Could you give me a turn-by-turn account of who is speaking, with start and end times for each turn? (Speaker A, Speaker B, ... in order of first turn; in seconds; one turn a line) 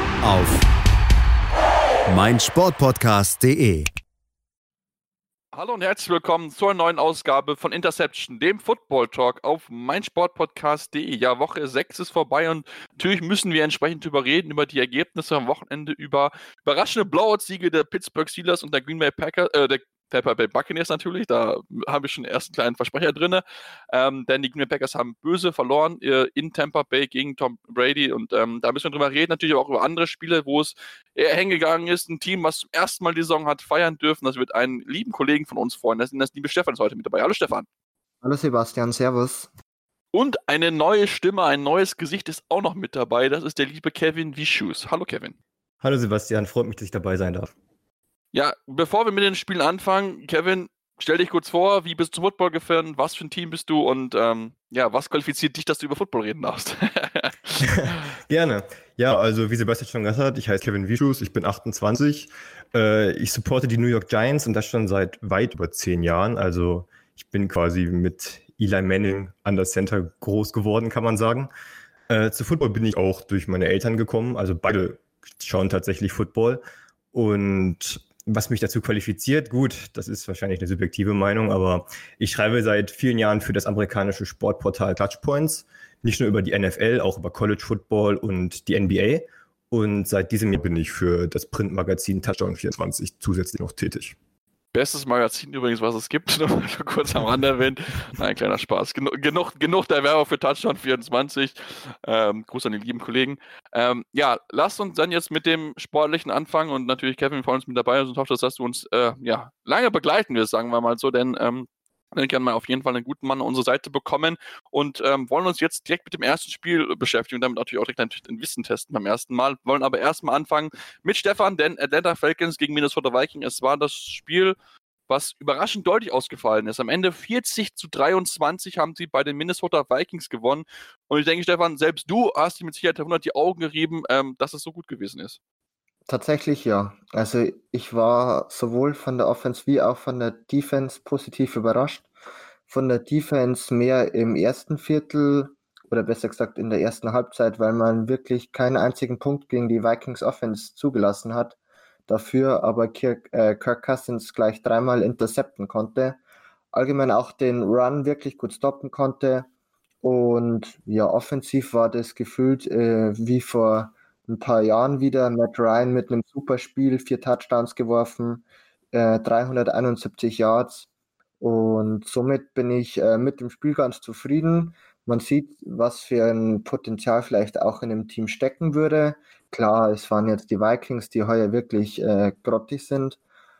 Speaker A: 0.2-0.6
Speaker A: 2.1-3.9
Speaker B: 5.5-37.7
Speaker C: 38.2-39.5
Speaker B: 40.1-45.4
Speaker D: 45.8-47.5
Speaker B: 48.3-57.9
Speaker D: 57.6-71.5
Speaker D: 72.1-76.6
Speaker D: 77.1-94.2
Speaker B: 94.7-124.5
Speaker B: 125.1-135.4
Speaker C: 136.1-142.1
Speaker C: 142.7-151.6
Speaker C: 152.1-156.2
Speaker C: 156.7-159.5
Speaker C: 160.0-170.9
Speaker C: 171.4-183.2